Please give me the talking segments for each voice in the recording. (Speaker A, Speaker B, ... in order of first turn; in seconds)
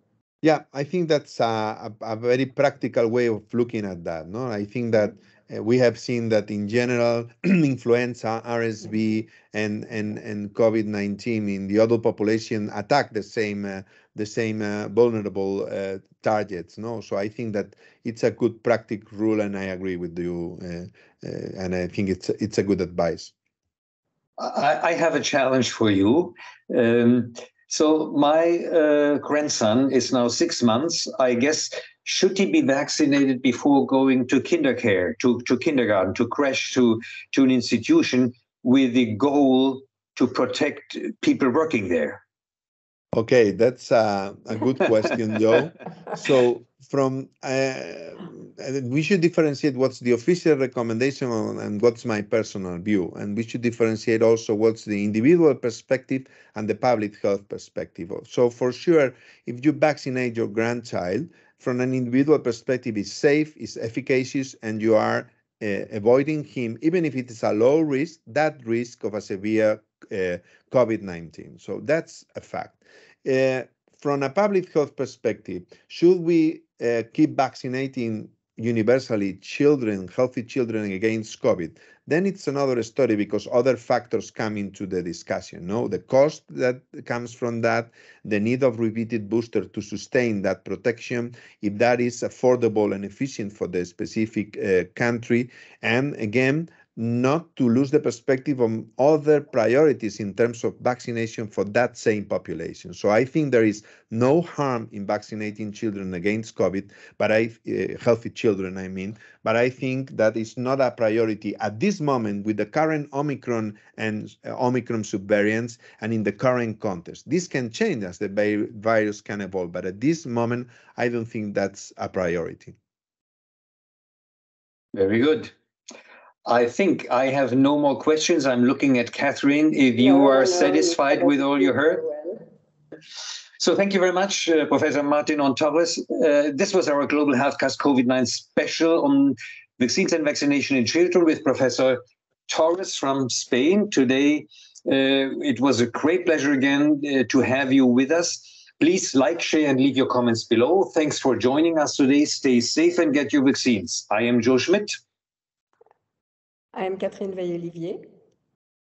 Speaker A: 0.4-23.3, 43.1-122.8
Speaker B: 24.4-42.2, 125.0-125.5, 126.5-132.0, 133.6-155.0
Speaker C: 130.0-132.4, 156.7-158.0